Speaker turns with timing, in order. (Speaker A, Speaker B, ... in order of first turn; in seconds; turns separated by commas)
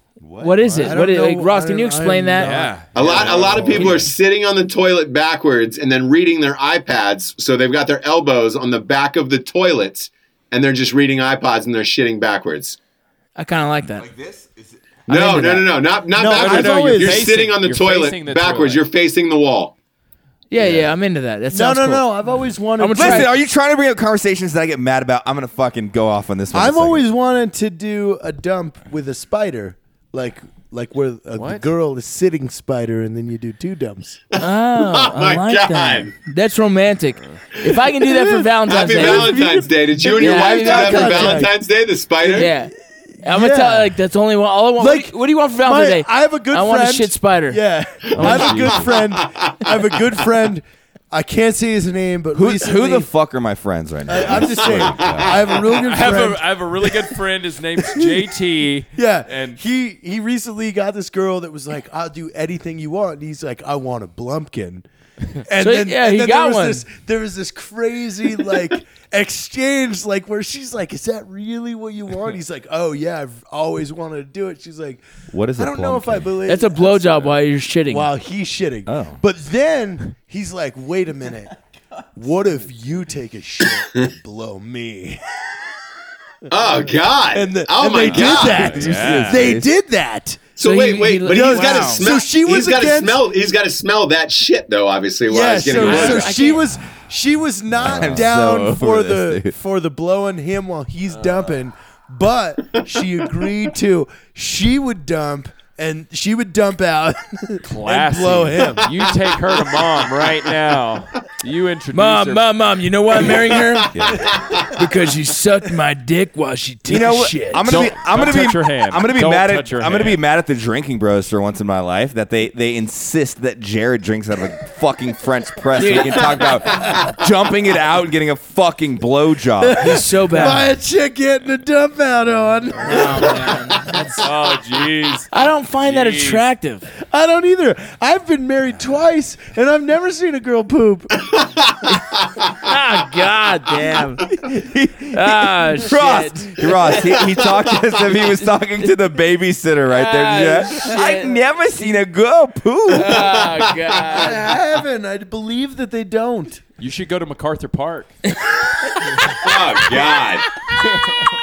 Speaker A: 0.2-0.8, Speaker B: 0.4-2.6, Speaker C: 0.8-4.1, Speaker D: 2.4-4.1, Speaker E: 2.9-12.8, Speaker B: 13.3-14.1, Speaker A: 14.0-15.4, Speaker E: 15.1-19.7, Speaker C: 15.3-15.6, Speaker C: 16.1-17.3, Speaker D: 16.3-18.8, Speaker B: 20.5-22.1, Speaker C: 21.5-23.3, Speaker B: 22.8-23.3, Speaker A: 22.9-27.0, Speaker C: 26.5-34.2, Speaker D: 31.4-31.7, Speaker E: 34.3-36.1, Speaker B: 34.4-39.4, Speaker C: 38.0-41.5, Speaker E: 38.6-42.5, Speaker B: 40.1-41.5, Speaker C: 42.2-42.5, Speaker B: 42.3-42.7, Speaker B: 43.2-47.6, Speaker C: 43.2-43.9, Speaker C: 44.8-53.1, Speaker D: 48.1-49.0, Speaker E: 48.2-49.7, Speaker A: 52.3-55.5, Speaker C: 54.1-57.2, Speaker E: 54.6-55.5, Speaker D: 55.6-59.6, Speaker C: 57.8-58.2, Speaker C: 58.9-64.8, Speaker C: 65.4-75.0, Speaker B: 65.6-66.8, Speaker A: 75.3-76.3, Speaker C: 75.6-81.6, Speaker B: 76.5-78.1, Speaker A: 78.8-79.2, Speaker C: 82.2-85.2, Speaker E: 86.5-88.8, Speaker C: 87.3-90.5, Speaker A: 88.3-89.7, Speaker D: 88.7-89.5, Speaker E: 90.5-96.3, Speaker B: 90.6-92.1, Speaker C: 91.3-93.2, Speaker C: 95.3-109.0, Speaker B: 95.7-96.7, Speaker A: 97.7-99.5, Speaker D: 101.1-101.5, Speaker D: 107.6-112.5, Speaker B: 111.9-114.0, Speaker E: 113.6-114.8, Speaker A: 113.9-114.3, Speaker B: 114.7-117.8, Speaker A: 116.9-130.0, Speaker D: 117.6-120.2, Speaker B: 125.8-126.5, Speaker C: 129.6-134.3, Speaker B: 129.8-130.7, Speaker B: 132.8-134.1, Speaker D: 134.2-135.3, Speaker B: 135.3-136.9, Speaker D: 135.8-136.4, Speaker C: 137.0-141.3, Speaker E: 141.3-142.7, Speaker B: 142.5-144.3, Speaker A: 144.4-153.3, Speaker B: 145.1-147.0, Speaker E: 147.3-147.5, Speaker B: 148.3-148.9, Speaker B: 149.9-151.4, Speaker B: 152.9-154.4, Speaker E: 153.0-154.2, Speaker C: 154.1-156.6, Speaker D: 156.8-158.1, Speaker E: 159.3-160.4